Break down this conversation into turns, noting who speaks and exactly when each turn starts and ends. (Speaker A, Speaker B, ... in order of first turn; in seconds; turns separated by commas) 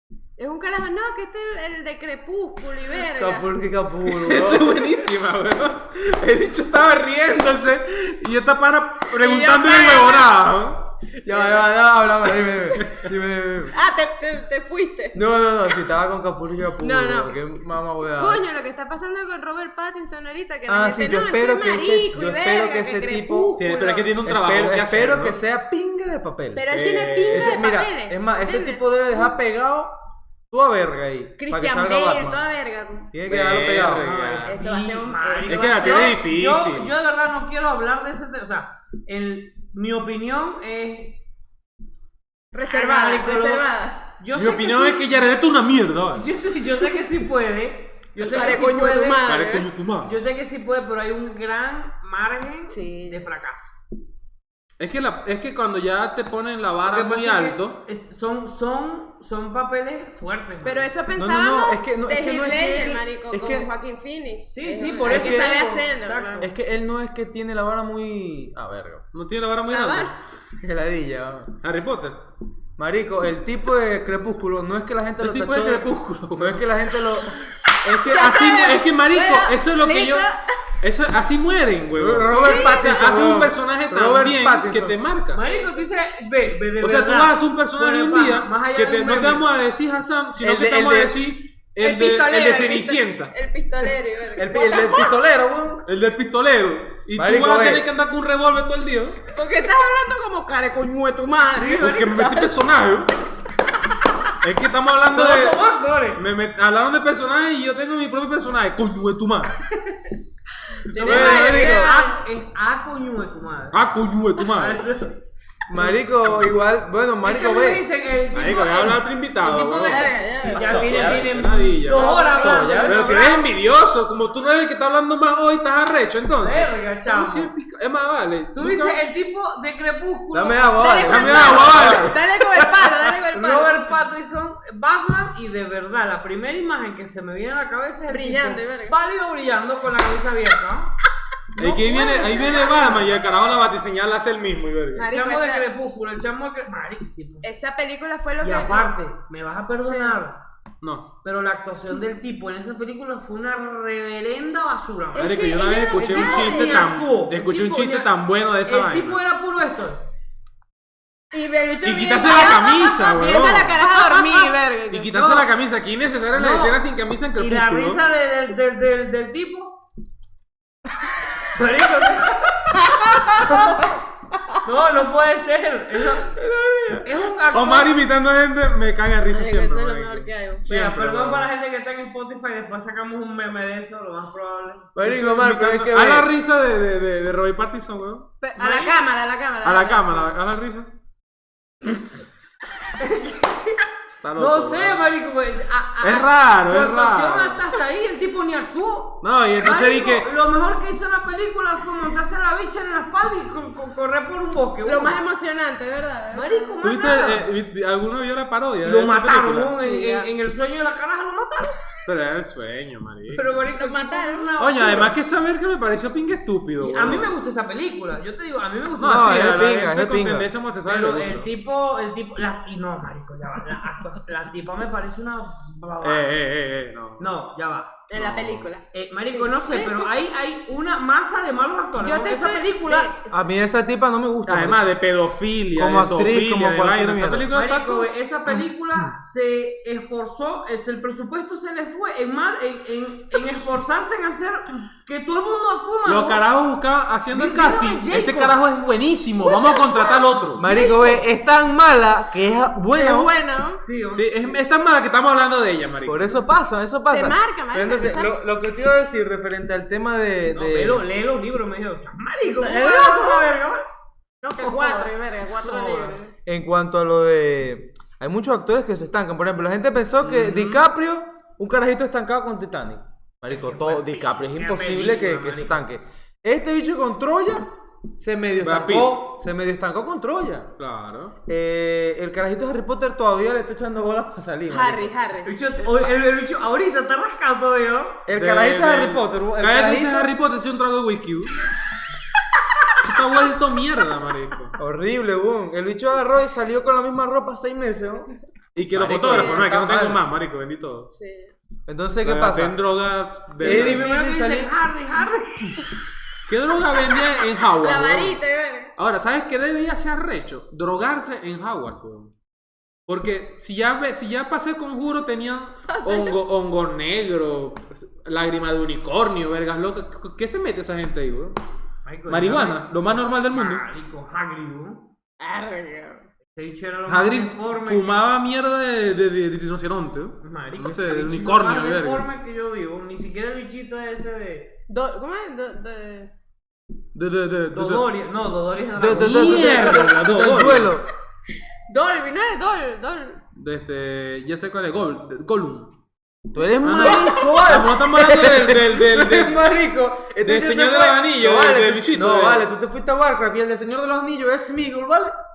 Speaker A: 0.4-3.5, Speaker B: 3.1-4.8, Speaker C: 4.0-10.9, Speaker A: 9.1-10.3, Speaker B: 11.2-13.8, Speaker A: 13.7-15.2, Speaker B: 15.1-18.4, Speaker A: 16.8-17.4, Speaker A: 18.2-24.1, Speaker B: 20.7-23.6, Speaker C: 23.6-25.4, Speaker B: 24.2-26.7, Speaker A: 26.5-29.3, Speaker C: 26.7-27.6, Speaker B: 27.3-29.9, Speaker B: 30.5-32.5, Speaker A: 31.4-33.1, Speaker B: 33.1-34.1, Speaker C: 33.3-34.6, Speaker D: 33.9-41.2, Speaker A: 34.5-36.2, Speaker C: 35.5-36.9, Speaker A: 42.5-44.0, Speaker D: 42.7-45.0, Speaker C: 44.3-46.3, Speaker D: 46.2-49.4, Speaker A: 48.2-49.7, Speaker C: 49.2-50.2, Speaker D: 50.0-53.7, Speaker A: 52.7-53.2, Speaker C: 54.8-57.8, Speaker D: 56.9-60.9, Speaker A: 60.6-66.5, Speaker B: 61.2-63.7, Speaker D: 64.5-66.5, Speaker B: 65.0-65.7, Speaker B: 66.4-69.1, Speaker C: 69.1-70.2, Speaker A: 69.7-70.1, Speaker B: 70.6-71.6, Speaker C: 71.6-72.2, Speaker B: 72.8-77.4, Speaker C: 75.2-76.7, Speaker C: 77.8-85.5, Speaker A: 78.0-80.5, Speaker B: 82.0-85.0, Speaker A: 82.3-82.9, Speaker D: 85.3-89.5, Speaker A: 85.5-85.8, Speaker C: 86.8-93.3, Speaker B: 90.4-91.2, Speaker A: 91.8-95.2, Speaker B: 94.4-95.9, Speaker C: 95.9-99.2, Speaker B: 97.2-97.9, Speaker A: 99.3-102.6, Speaker D: 101.5-102.2, Speaker C: 101.6-103.1, Speaker C: 104.4-105.6, Speaker D: 105.1-106.2, Speaker C: 106.2-109.6, Speaker A: 110.9-112.2, Speaker B: 111.0-112.0, Speaker D: 111.0-113.9, Speaker C: 111.0-111.5, Speaker C: 113.7-114.9, Speaker D: 114.4-115.2, Speaker B: 115.7-117.8, Speaker D: 117.2-123.5, Speaker C: 118.3-129.0, Speaker A: 119.8-120.9, Speaker B: 120.5-121.4, Speaker A: 121.9-122.8, Speaker B: 122.2-123.0, Speaker D: 126.4-127.5, Speaker D: 128.5-131.9, Speaker B: 130.3-132.2, Speaker A: 130.8-133.9, Speaker C: 131.0-132.3, Speaker D: 132.5-140.9, Speaker A: 138.1-139.0, Speaker C: 141.6-145.1, Speaker A: 141.6-143.0, Speaker A: 145.0-145.7, Speaker D: 145.1-147.5, Speaker A: 147.4-148.9, Speaker D: 148.4-150.4, Speaker A: 149.8-150.2, Speaker C: 150.8-151.1, Speaker D: 151.2-158.1, Speaker A: 155.1-156.9, Speaker C: 155.2-159.2, Speaker D: 158.6-160.0, Speaker A: 161.3-165.1, Speaker C: 161.8-163.9, Speaker C: 164.9-168.0, Speaker D: 165.1-165.5, Speaker D: 166.3-169.8, Speaker D: 171.5-173.9, Speaker A: 172.9-173.7, Speaker D: 174.6-176.4, Speaker C: 176.4-181.5, Speaker D: 177.0-178.0, Speaker A: 179.3-180.6, Speaker D: 180.7-185.0, Speaker B: 184.9-186.3, Speaker C: 185.1-188.3, Speaker A: 188.4-190.3, Speaker D: 188.6-189.0, Speaker C: 189.6-190.9, Speaker D: 193.0-193.8, Speaker C: 194.2-195.1, Speaker D: 194.4-205.2, Speaker C: 196.0-197.6, Speaker C: 199.2-200.3, Speaker A: 204.8-206.8, Speaker D: 206.3-207.5, Speaker C: 206.8-209.7, Speaker D: 208.8-211.8, Speaker A: 209.8-210.3, Speaker C: 212.1-213.6, Speaker D: 213.3-215.2, Speaker A: 213.7-214.5, Speaker C: 214.6-217.4, Speaker D: 216.8-219.6, Speaker C: 219.0-221.5, Speaker B: 219.0-220.5, Speaker D: 220.9-226.4, Speaker C: 226.0-227.3, Speaker D: 227.2-228.0, Speaker A: 228.1-230.1, Speaker C: 228.1-228.7, Speaker D: 228.9-233.3, Speaker A: 232.0-233.3, Speaker B: 233.3-234.8, Speaker C: 234.5-238.1, Speaker B: 235.8-237.5, Speaker D: 237.5-246.4, Speaker C: 246.1-250.7, Speaker D: 247.3-248.6, Speaker A: 249.4-250.2, Speaker B: 250.6-253.3, Speaker D: 250.7-251.2, Speaker A: 253.0-253.8, Speaker D: 253.8-254.6, Speaker C: 254.1-256.4, Speaker B: 256.1-261.0, Speaker A: 257.1-258.4, Speaker D: 260.5-263.8, Speaker A: 262.5-263.6, Speaker A: 264.4-266.3, Speaker D: 264.6-266.2, Speaker B: 266.5-280.7, Speaker C: 270.2-270.8, Speaker D: 273.5-275.8, Speaker C: 278.6-279.3, Speaker C: 280.8-281.4, Speaker B: 281.5-285.2, Speaker A: 284.7-285.6, Speaker D: 285.4-288.2, Speaker B: 288.3-290.3, Speaker C: 288.3-291.6, Speaker C: 293.0-294.8, Speaker B: 294.8-298.3, Speaker C: 298.8-301.1, Speaker B: 298.9-300.2, Speaker A: 299.3-299.7, Speaker A: 301.1-301.5, Speaker B: 301.9-302.8, Speaker C: 302.2-304.1, Speaker B: 303.6-304.7, Speaker D: 303.6-305.9, Speaker C: 306.5-308.4, Speaker A: 307.7-308.9, Speaker C: 309.0-312.3, Speaker C: 313.1-321.6, Speaker A: 315.9-316.4, Speaker D: 322.1-325.1, Speaker C: 322.3-323.9, Speaker A: 325.4-326.2, Speaker D: 326.6-328.2, Speaker C: 327.1-332.3, Speaker D: 330.4-334.8, Speaker A: 334.9-336.3, Speaker C: 337.1-338.1, Speaker D: 337.7-340.1, Speaker B: 339.0-341.1, Speaker C: 339.1-341.0, Speaker A: 341.9-343.4, Speaker C: 343.6-345.9, Speaker B: 346.5-355.4, Speaker C: 346.8-349.6, Speaker A: 347.0-347.6, Speaker C: 350.4-352.7